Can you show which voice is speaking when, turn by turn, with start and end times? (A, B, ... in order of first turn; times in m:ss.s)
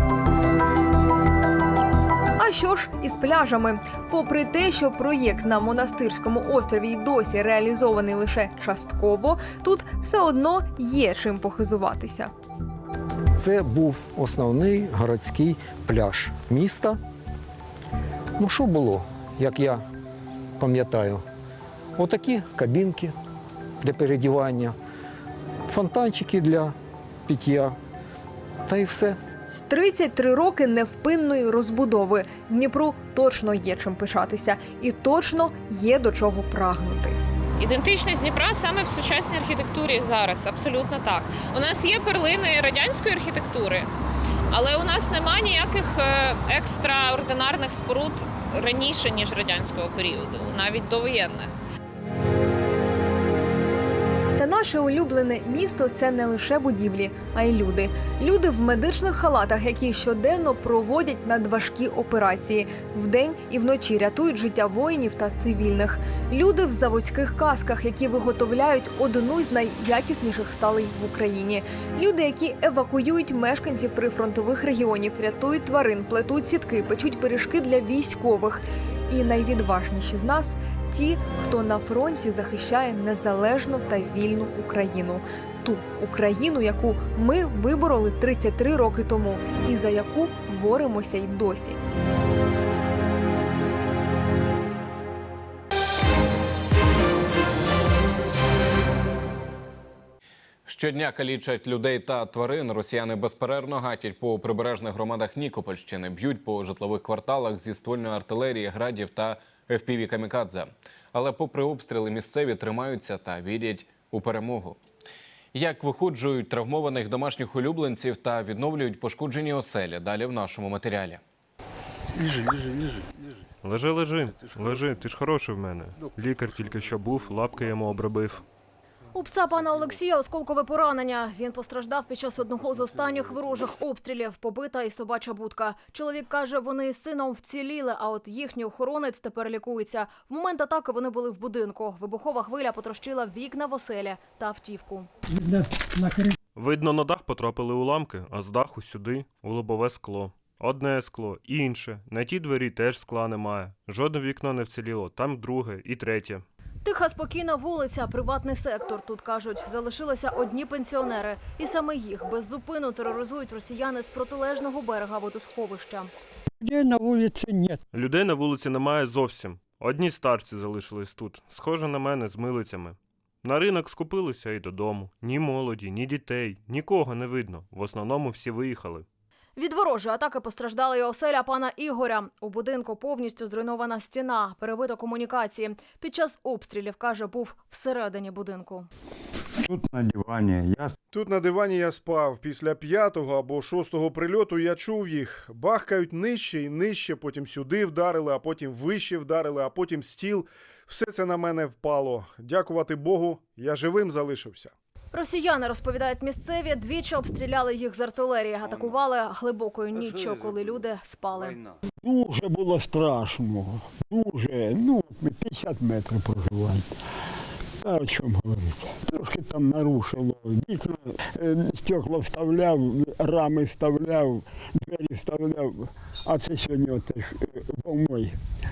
0:02.4-0:12.3 A
0:13.4-0:17.0 B
0:18.4-0:19.8 B
0:20.6-0:21.2 B
0:22.0-0:23.2 B
0:23.8-0:24.8 B
0:25.7-0:26.8 B
0:27.3-0:27.8 B
0:28.7-0:29.2 B
0:29.7-0:37.2 A
0:37.6-0:43.9 C
0:44.5-0:51.5 C
0:54.4-1:31.8 A
1:40.7-1:54.8 D
1:55.5-2:01.2 D
2:03.6-2:08.4 E
2:09.1-2:25.1 F
2:26.6-2:36.4 E
2:36.8-2:46.1 F
2:46.6-2:47.8 G
2:47.9-2:59.1 E
2:59.6-3:08.9 F
3:09.8-3:10.1 G
3:11.1-3:24.7 H
3:25.1-3:31.6 F
3:32.0-3:36.9 G
3:37.8-3:48.3 G